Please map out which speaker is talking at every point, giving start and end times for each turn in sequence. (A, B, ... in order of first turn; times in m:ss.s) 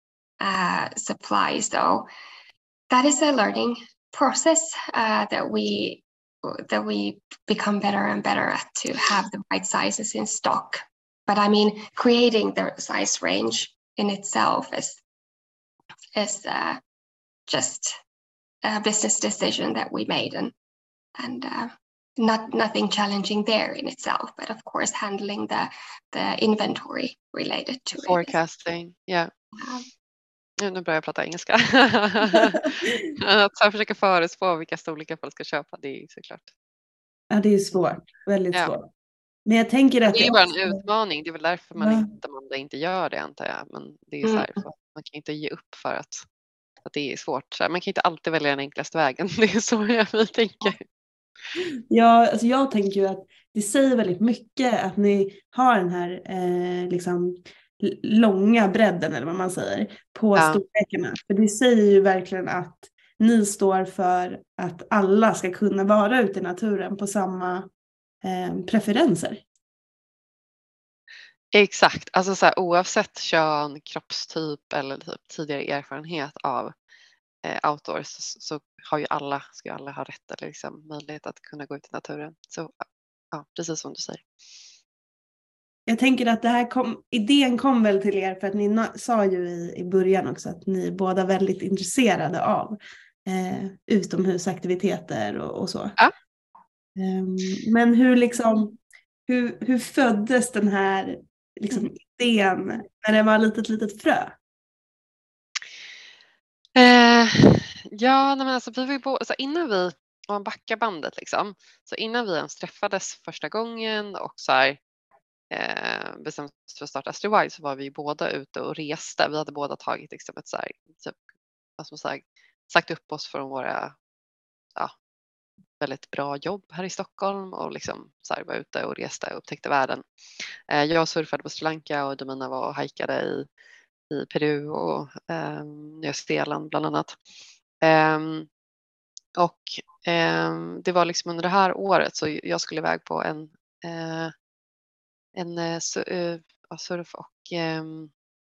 0:00.4-0:02.1 A
0:02.9-0:15.0 A
0:16.2-0:16.8 A
0:17.5-0:18.0 A
0:18.6-0:20.5 A
0:21.2-0:28.4 A
0:28.0-0:29.3 B
0:29.6-0:29.9 A
0:30.6-0:36.5 B
0:37.3-0:38.9 C
0:39.5-0:40.8 C
0:40.1-0:46.3 B
0:41.8-0:42.1 C
0:44.2-0:44.5 A
0:46.8-0:50.8 B
0:51.9-1:07.7 C
1:00.4-1:00.6 B
1:08.2-1:09.4 C
1:11.5-1:16.7 B
1:17.4-1:24.2 B
1:25.9-1:36.0 C
1:37.0-1:44.4 C
1:46.8-1:54.8 B
1:55.5-2:01.2 B
2:01.8-2:04.0 B
2:05.8-2:10.0 B
2:10.7-2:13.5 B
2:14.1-2:17.2 B
2:17.8-2:18.5 B
2:19.4-2:24.3 B
2:25.4-2:28.1 B